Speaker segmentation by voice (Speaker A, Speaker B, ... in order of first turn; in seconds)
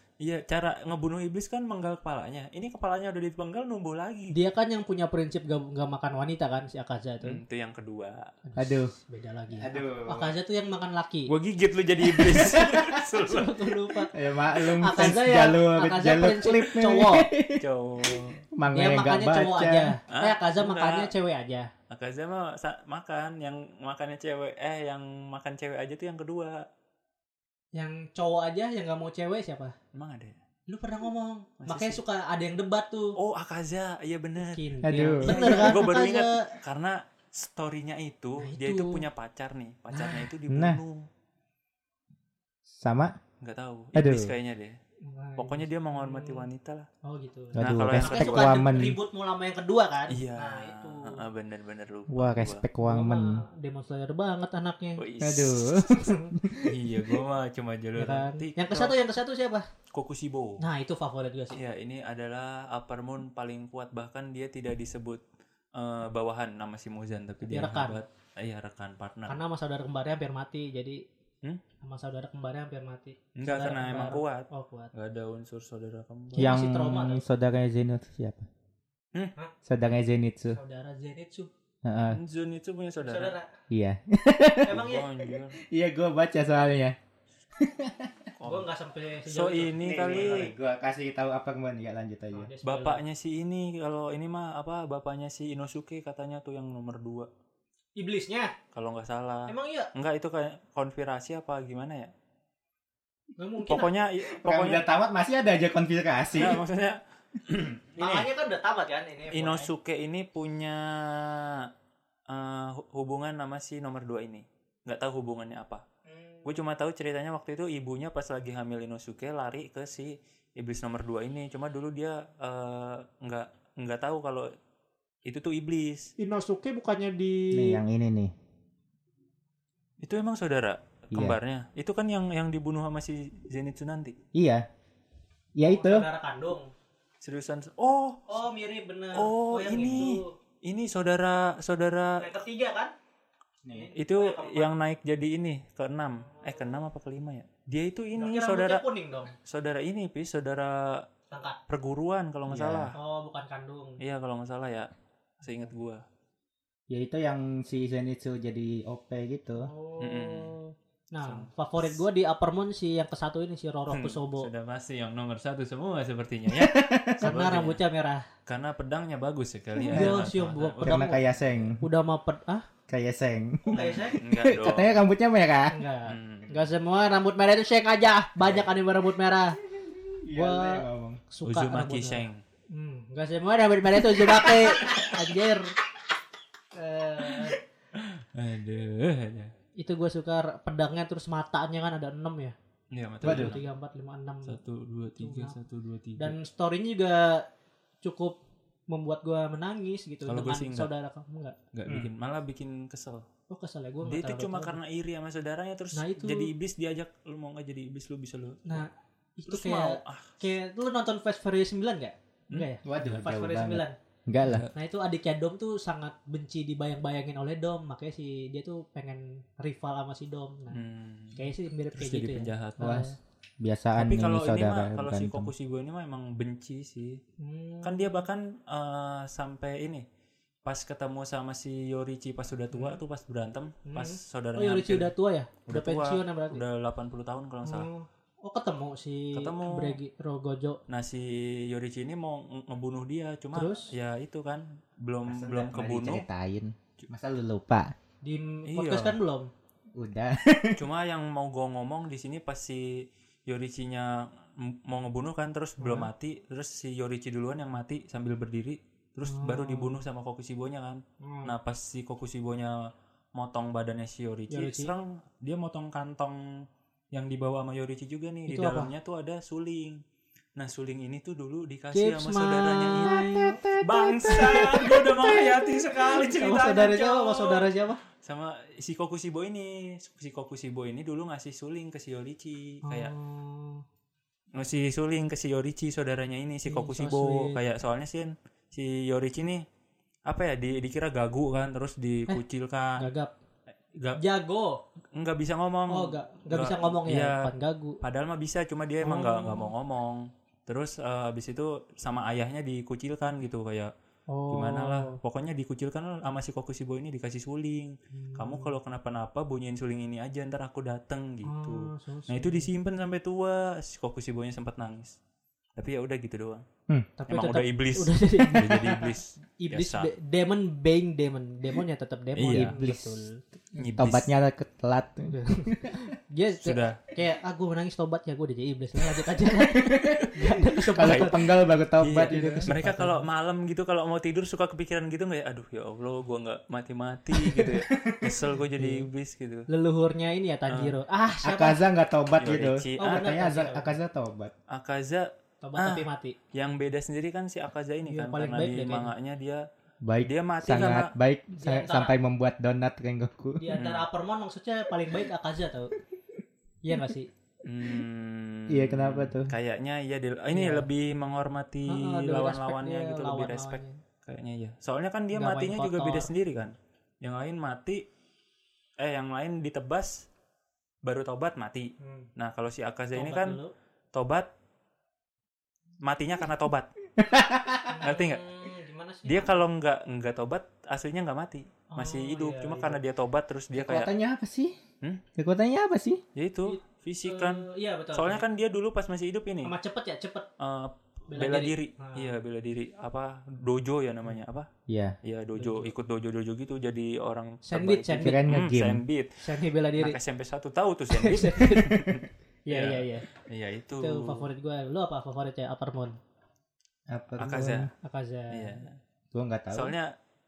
Speaker A: 0.2-4.3, 7.2-8.2, 11.3-13.7, 17.6-18.4, 20.1-21.1, 21.9-26.6, 29.9-30.4, 31.6-32.0, 33.1-34.7, 35.2-41.0, 43.4-44.8, 45.4-46.9, 47.6-48.6, 50.1-52.6, 55.0-55.9, 56.6-59.0, 59.9-60.6, 61.5-65.2, 65.8-69.3, 73.3-76.5, 82.1-83.3, 84.7-85.6, 88.4-88.7, 89.2-90.5, 92.6-97.3, 98.7-102.1, 103.6-104.8, 106.3-108.3, 109.3-111.7, 112.3-115.8, 116.4-124.5, 125.2-126.1, 130.0-134.2, 137.2-138.2, 139.1-142.2, 143.9-148.8, 149.4-151.1, 151.7-152.9, 154.0-154.9, 155.4-156.0, 160.0-160.6, 161.2-162.0, 163.9-167.8, 168.4-171.6, 173.7-175.0, 176.1-176.5, 181.4-182.4, 187.9-189.5, 192.9-193.6, 194.4-196.3, 200.2-200.9, 201.7-203.2, 204.0-208.8, 209.5-210.4, 214.4-214.7, 220.7-221.4, 221.9-223.0, 224.0-227.2, 227.8-230.0, 230.6-235.1, 235.7-237.9, 239.3-240.0, 240.9-246.2, 248.7-249.2, 250.8-270.0, 270.6-273.2, 273.8-277.7, 278.2-283.1, 284.5-289.6, 290.3-293.0, 295.1-297.5, 298.0-303.9, 304.5-315.2, 315.8-316.6, 317.3-320.1, 322.4-322.8, 323.8-324.3, 326.6-327.0, 330.9-331.4, 332.0-339.7, 340.7-340.9, 342.4-343.2, 344.7-349.6, 350.2-351.1, 353.7-354.0, 357.6-368.0, 369.0-370.3, 371.0-373.6, 374.1-374.5, 376.0-376.9, 378.0-378.4, 379.2-384.1, 386.3-389.7, 390.6-394.7, 395.2-399.4, 400.0-404.4, 407.4-407.9, 408.5-409.0, 409.7-410.1
Speaker B: 4.3-7.4, 8.5-11.3, 13.1-14.1, 14.8-17.3, 18.7-21.7, 27.7-29.7, 30.7-33.1, 34.4-36.5, 38.4-39.0, 45.0-46.5, 47.0-51.2, 52.8-55.0, 55.9-56.3, 58.0-59.7, 60.6-61.6, 67.5-68.0, 69.3-71.0, 71.8-74.9, 76.3-77.2, 80.5-81.5, 83.0-83.5, 84.7-85.0, 88.4-90.5, 92.3-93.0, 98.0-98.5, 99.5-99.9, 103.4-103.9, 108.0-109.7, 116.1-116.5, 126.2-127.8, 135.7-136.7, 138.3-140.3, 142.2-142.9, 143.7-144.7, 146.2-146.8, 148.2-149.3, 151.3-151.6, 152.9-154.0, 159.6-164.5, 167.2-168.2, 169.9-171.2, 171.8-172.7, 173.7-174.2, 175.7-179.6, 180.3-185.7, 186.7-187.6, 189.8-192.5, 193.2-194.6, 195.2-195.6, 196.2-197.4, 198.0-198.4, 198.9-201.6, 203.5-204.8, 205.9-206.5, 208.7-213.9, 214.7-220.8, 221.3-223.2, 227.4-228.2, 232.7-233.0, 233.8-236.6, 237.6-240.8, 243.5-243.9, 248.2-249.5, 255.8-256.1, 259.2-260.0, 261.2-261.5, 264.5-264.9, 268.5-268.9, 271.9-273.6, 274.2-278.0, 282.8-283.8, 286.6-287.6, 293.0-293.3, 294.1-294.8, 295.9-298.0, 299.0-299.7, 304.3-305.2, 308.1-308.7, 311.4-312.7, 317.2-323.4, 325.3-331.5, 332.2-333.2, 338.8-339.0, 339.7-341.8, 343.0-343.9, 345.6-346.4, 348.1-349.1, 351.5-352.1, 353.6-355.9, 356.8-357.3, 360.5-360.9, 361.9-364.0, 365.3-366.3, 372.0-372.3, 373.1-373.7, 377.9-379.6, 381.9-383.0, 386.6-388.4, 389.6-390.5, 391.3-392.3, 395.6-395.9, 397.6-398.4, 399.4-400.2, 401.1-403.2, 404.0-406.2, 408.0-408.8
Speaker C: 8.6-8.9, 9.6-10.3, 12.1-13.0, 14.1-19.9, 34.8-35.8, 40.5-40.8, 42.7-43.1, 43.9-44.3, 47.5-49.0, 52.1-53.4, 55.2-56.8, 76.4-78.5, 79.7-80.6, 81.8-82.2, 83.7-84.8, 85.6-87.0, 87.6-88.3, 89.8-92.5, 104.3-106.6, 127.5-128.3, 131.1-131.4, 134.3-134.7, 135.6-136.1, 143.6-143.9, 152.5-152.9, 156.9-159.7, 166.5-167.3, 169.8-170.2, 170.8-171.8, 172.9-175.7, 179.9-181.2, 193.2-193.6, 212.8-214.7, 222.8-225.5, 245.3-247.9, 249.9-250.8, 273.1-274.9, 322.5-323.2, 323.8-326.0, 329.6-332.7, 337.9-338.4, 341.4-344.5, 350.0-353.7, 358.7-359.5, 377.2-378.0, 383.7-384.8, 385.3-386.2, 394.9-395.1, 398.1-399.0, 407.1-407.9, 409.3-409.9